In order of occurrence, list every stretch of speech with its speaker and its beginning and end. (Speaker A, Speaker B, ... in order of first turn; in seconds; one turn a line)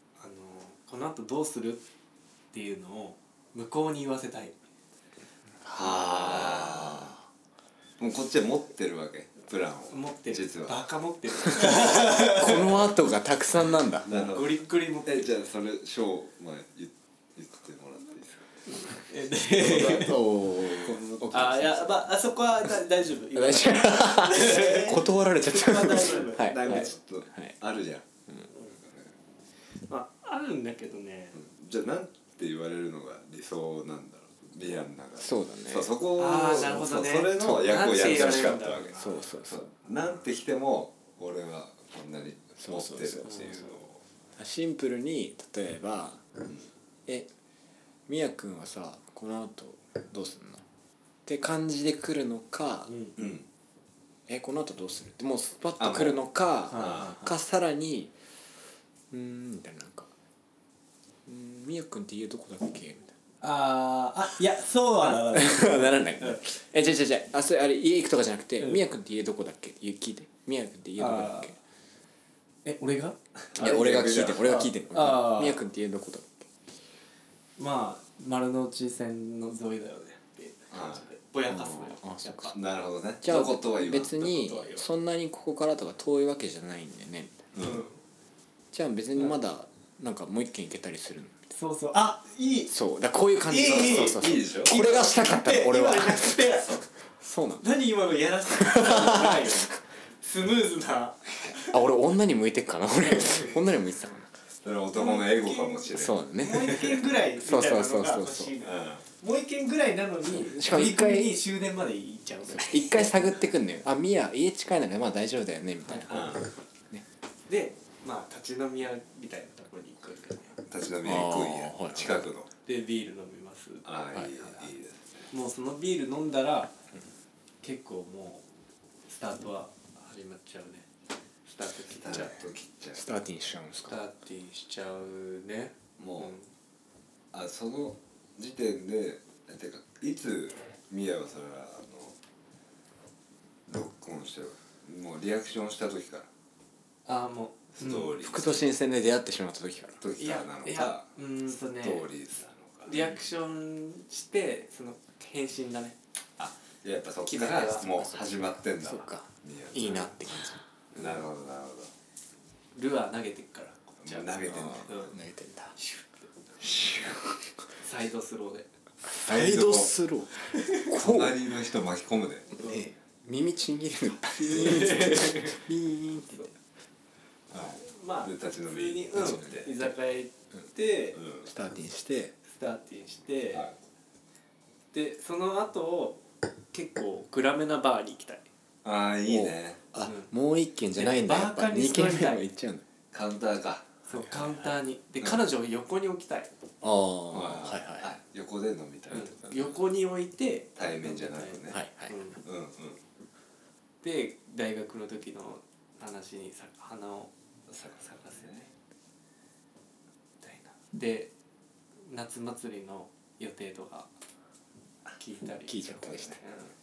Speaker A: 0.2-1.8
Speaker A: 2.5-4.6
Speaker B: 5.6-7.2
Speaker C: 5.7-7.1
Speaker C: 8.0-10.8
Speaker A: 9.9-12.8
Speaker B: 11.8-14.1
Speaker C: 14.1-18.4
Speaker A: 14.1-15.3
Speaker A: 18.7-20.2
Speaker C: 19.5-21.5
Speaker B: 19.8-21.9
Speaker A: 21.3-26.9
Speaker B: 23.3-27.5
Speaker C: 26.3-28.1
Speaker A: 28.5-28.8
Speaker C: 28.8-29.1
Speaker A: 29.9-31.4
Speaker C: 31.3-44.0
Speaker B: 35.2-35.9
Speaker A: 36.2-39.2
Speaker B: 39.0-39.7
Speaker B: 42.6-43.3
Speaker A: 43.2-43.7
Speaker B: 44.4-46.2
Speaker B: 48.1-50.6
Speaker B: 51.2-52.9
Speaker A: 52.9-53.2
Speaker C: 53.2-53.4
Speaker B: 54.3-58.1
Speaker C: 55.8-57.1
Speaker A: 56.7-57.3
Speaker B: 59.1-60.1
Speaker B: 61.2-63.1
Speaker A: 63.4-66.4
Speaker B: 65.0-71.6
Speaker A: 71.0-71.5
Speaker A: 72.6-73.5
Speaker C: 73.5-74.7
Speaker B: 73.6-76.5
Speaker A: 74.4-75.6
Speaker A: 77.6-82.6
Speaker C: 80.7-81.0
Speaker B: 81.5-82.5
Speaker C: 82.5-84.2
Speaker B: 83.2-87.4
Speaker A: 83.9-84.8
Speaker C: 87.5-87.8
Speaker A: 87.6-88.0
Speaker B: 88.7-91.5
Speaker A: 91.5-92.7
Speaker B: 92.7-97.7
Speaker A: 93.5-96.8
Speaker C: 93.6-94.7
Speaker A: 97.6-101.8
Speaker B: 98.5-99.5
Speaker B: 101.7-104.3
Speaker A: 103.1-103.5
Speaker C: 104.6-106.9
Speaker A: 104.9-113.3
Speaker B: 106.0-108.5
Speaker C: 108.6-109.0
Speaker B: 110.3-111.4
Speaker B: 112.5-116.3
Speaker A: 115.9-116.3
Speaker C: 116.1-116.5
Speaker A: 117.5-120.5
Speaker C: 120.7-122.5
Speaker B: 121.0-122.3
Speaker A: 122.6-124.7
Speaker C: 123.8-125.3
Speaker A: 125.3-126.7
Speaker A: 127.6-128.4
Speaker A: 129.1-130.9
Speaker A: 131.4-132.5
Speaker C: 132.0-133.0
Speaker B: 132.9-134.0
Speaker A: 133.9-136.5
Speaker C: 136.0-136.3
Speaker C: 137.3-142.2
Speaker C: 143.7-146.3
Speaker A: 147.1-148.2
Speaker C: 147.8-148.6
Speaker B: 148.2-150.0
Speaker C: 150.0-153.2
Speaker A: 150.2-152.1
Speaker A: 152.8-156.0
Speaker C: 156.4-160.1
Speaker A: 157.3-157.8
Speaker B: 157.8-160.6
Speaker A: 160.9-161.2
Speaker C: 160.9-161.9
Speaker A: 162.7-165.1
Speaker C: 164.0-165.0
Speaker B: 164.5-165.8
Speaker A: 165.8-166.3
Speaker C: 166.6-167.2
Speaker A: 167.8-168.7
Speaker B: 169.1-171.4
Speaker C: 169.2-169.9
Speaker C: 170.9-172.5
Speaker B: 172.6-176.5
Speaker A: 174.4-175.5
Speaker C: 177.5-179.7
Speaker A: 177.7-181.2
Speaker C: 181.2-181.5
Speaker B: 181.4-182.3
Speaker A: 182.4-183.7
Speaker A: 184.9-188.5
Speaker C: 188.8-189.8
Speaker B: 189.3-192.8
Speaker A: 190.0-190.3
Speaker A: 190.9-192.4
Speaker C: 193.1-193.9
Speaker A: 194.1-196.5
Speaker B: 194.2-194.5
Speaker B: 196.8-198.1
Speaker C: 197.3-199.7
Speaker A: 199.1-202.4
Speaker C: 200.8-201.8
Speaker B: 201.7-202.1
Speaker C: 202.4-203.0
Speaker A: 204.0-208.7
Speaker C: 207.8-208.7
Speaker A: 210.4-211.3
Speaker A: 212.1-214.1
Speaker A: 215.2-216.7
Speaker B: 215.7-216.4